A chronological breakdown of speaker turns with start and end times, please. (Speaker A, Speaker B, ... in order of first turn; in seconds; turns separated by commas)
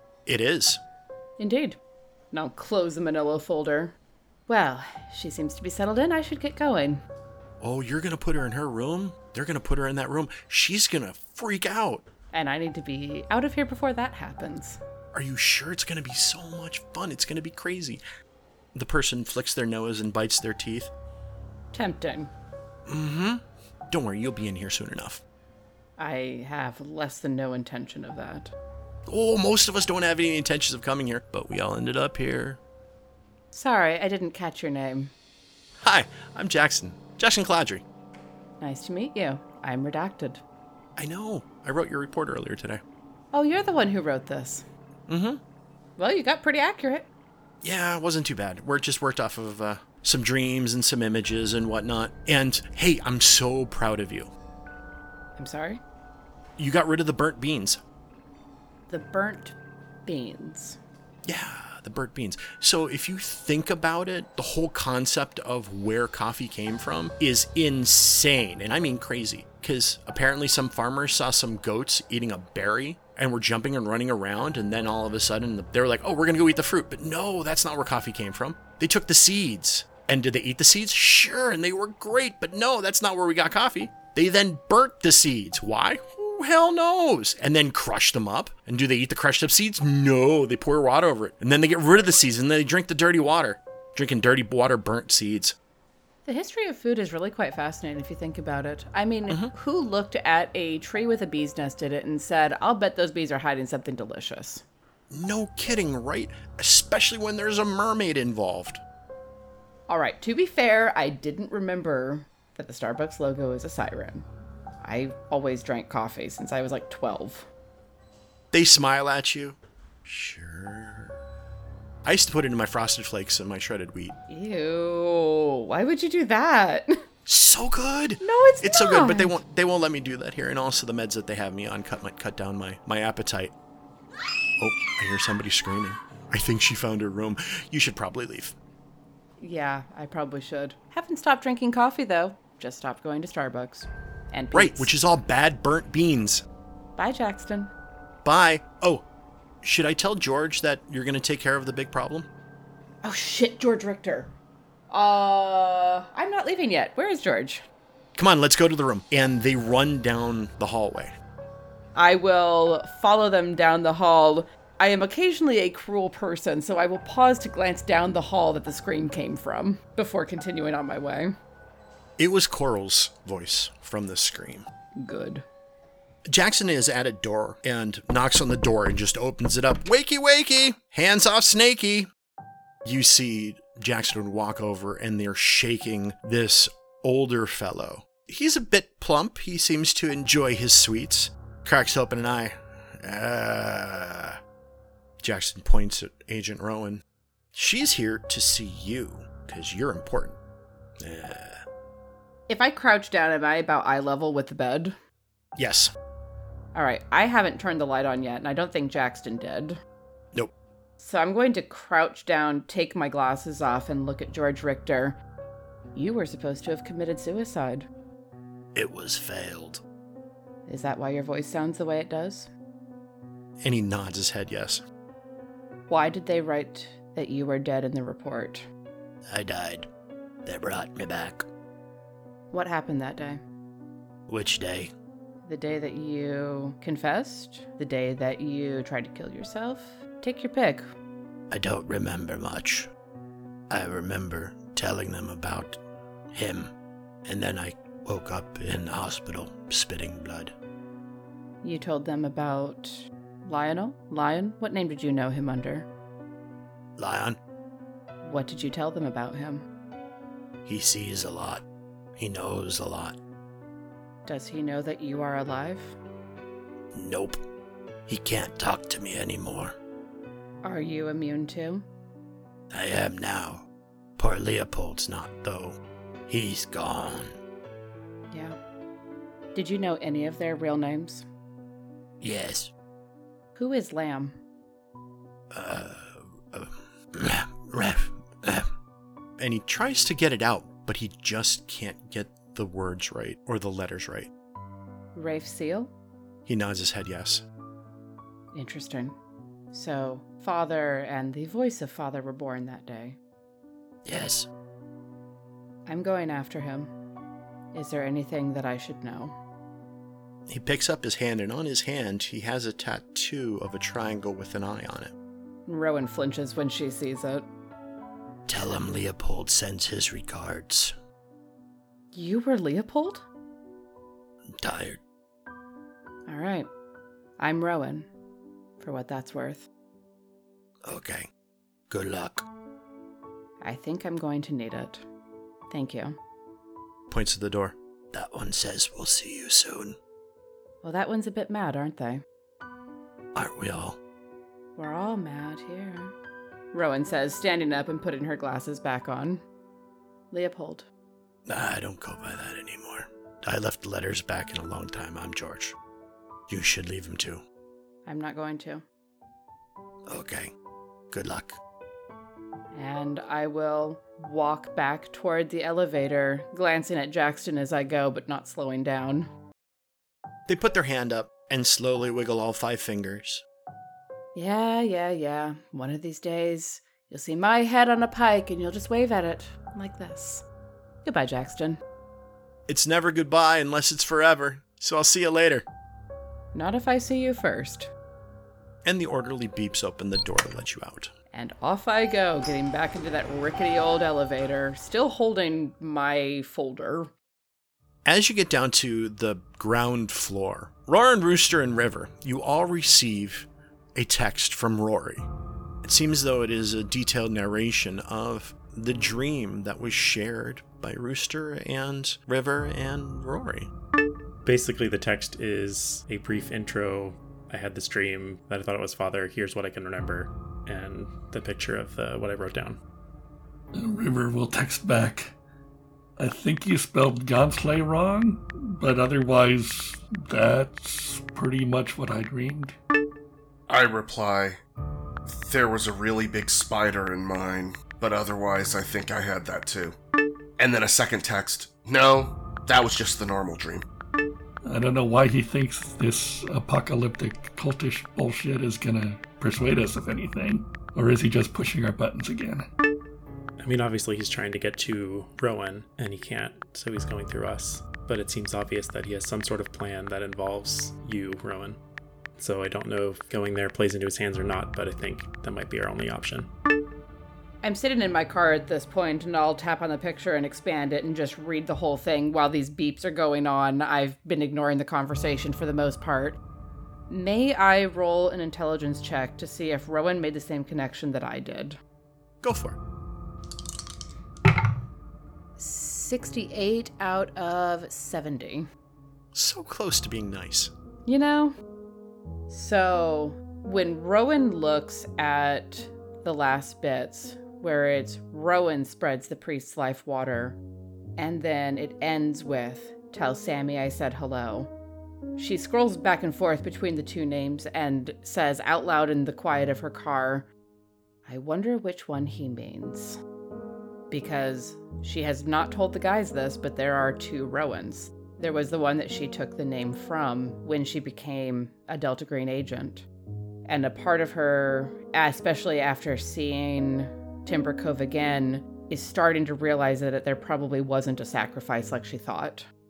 Speaker A: 0.3-0.8, Speaker B: 1.4-1.8, Speaker B: 2.3-4.0, Speaker B: 4.5-7.0, Speaker A: 7.6-12.1, Speaker B: 12.3-14.8, Speaker A: 15.1-18.0, Speaker A: 18.7-20.9, Speaker B: 21.7-22.3, Speaker A: 22.9-25.2, Speaker B: 26.0-28.5, Speaker A: 29.1-32.6, Speaker B: 33.5-35.1, Speaker A: 35.8-37.8, Speaker B: 38.6-40.4, Speaker A: 41.0-42.8, Speaker B: 43.3-44.7, Speaker A: 45.1-45.4, Speaker B: 46.0-47.1, Speaker A: 47.6-54.3, Speaker B: 55.4-55.8, Speaker A: 56.6-57.8, Speaker B: 58.9-60.8, Speaker A: 61.2-95.6, Speaker B: 96.2-104.6, Speaker A: 105.1-108.8, Speaker B: 109.9-114.3, Speaker B: 114.8-117.5, Speaker A: 118.5-121.2, Speaker A: 122.0-124.2, Speaker B: 124.3-127.0, Speaker A: 127.3-133.5, Speaker B: 128.2-129.3, Speaker A: 134.6-138.6, Speaker B: 139.4-144.9, Speaker A: 144.5-146.4, Speaker B: 147.0-147.7, Speaker A: 148.2-149.1, Speaker A: 149.6-152.3, Speaker B: 153.0-154.3, Speaker B: 154.9-157.6, Speaker A: 158.2-161.2, Speaker B: 161.9-171.3, Speaker A: 172.2-174.7, Speaker B: 175.0-175.4, Speaker A: 176.3-182.1, Speaker A: 182.8-194.4, Speaker A: 195.2-197.0, Speaker A: 197.5-200.4, Speaker A: 201.0-201.6, Speaker B: 202.5-205.0, Speaker A: 205.6-205.9, Speaker B: 206.7-209.8, Speaker B: 211.0-215.2, Speaker B: 215.9-217.9, Speaker A: 218.8-219.8, Speaker B: 220.7-222.5, Speaker A: 223.6-224.8, Speaker B: 225.9-228.7, Speaker A: 229.3-229.9, Speaker A: 230.4-231.5, Speaker B: 232.5-233.4, Speaker A: 234.3-234.9, Speaker B: 235.5-240.9, Speaker A: 241.5-242.9, Speaker A: 243.7-245.8, Speaker A: 246.3-246.7, Speaker A: 247.2-250.5, Speaker B: 251.6-255.9, Speaker A: 257.0-257.4, Speaker B: 258.2-259.7, Speaker A: 260.6-261.6, Speaker A: 262.2-263.2, Speaker B: 264.3-266.0, Speaker A: 266.9-267.4, Speaker A: 268.1-269.8, Speaker B: 270.6-271.9, Speaker A: 272.7-273.7, Speaker A: 274.2-277.4, Speaker B: 278.3-278.6, Speaker B: 279.6-281.3, Speaker A: 282.2-282.7, Speaker B: 283.6-284.4, Speaker A: 285.5-288.7, Speaker A: 289.4-294.3, Speaker B: 295.1-295.9, Speaker A: 296.5-297.4, Speaker B: 298.5-299.1, Speaker B: 299.7-303.2, Speaker A: 304.1-304.5, Speaker B: 305.9-306.9, Speaker B: 307.7-309.4, Speaker A: 310.5-315.1, Speaker B: 315.7-317.5, Speaker A: 318.5-320.9, Speaker B: 322.1-323.2, Speaker A: 324.6-325.0, Speaker B: 326.3-326.7, Speaker B: 327.4-328.1, Speaker B: 328.8-329.7, Speaker A: 330.9-331.3, Speaker A: 331.9-332.5, Speaker B: 333.6-335.0, Speaker B: 335.7-336.2, Speaker A: 337.1-340.0, Speaker B: 340.8-342.2, Speaker A: 343.4-344.0, Speaker B: 344.8-346.1, Speaker B: 346.7-349.4, Speaker B: 350.3-350.9, Speaker A: 351.5-355.8, Speaker A: 356.5-357.4, Speaker B: 358.1-358.8, Speaker A: 360.1-360.5, Speaker A: 361.1-361.6, Speaker B: 362.7-369.3, Speaker A: 370.5-373.4, Speaker B: 374.4-380.4, Speaker B: 381.0-381.8, Speaker A: 382.7-385.7, Speaker B: 386.5-387.9, Speaker A: 388.9-391.1, Speaker B: 391.3-397.1, Speaker A: 398.1-405.3, Speaker A: 405.8-413.7, Speaker C: 414.4-422.8, Speaker D: 423.8-425.4, Speaker D: 426.2-432.8, Speaker E: 433.7-434.6, Speaker E: 435.3-440.0, Speaker E: 440.6-443.9, Speaker D: 444.7-452.6, Speaker C: 453.6-461.8, Speaker C: 462.4-466.5, Speaker B: 467.6-476.4, Speaker B: 477.1-481.8, Speaker A: 482.4-482.8, Speaker B: 485.6-488.7, Speaker A: 489.3-490.7, Speaker B: 491.1-491.5, Speaker B: 492.5-500.6, Speaker B: 501.2-504.7, Speaker B: 505.4-510.5, Speaker B: 511.3-513.2, Speaker B: 514.1-523.1, Speaker B: 523.7-532.7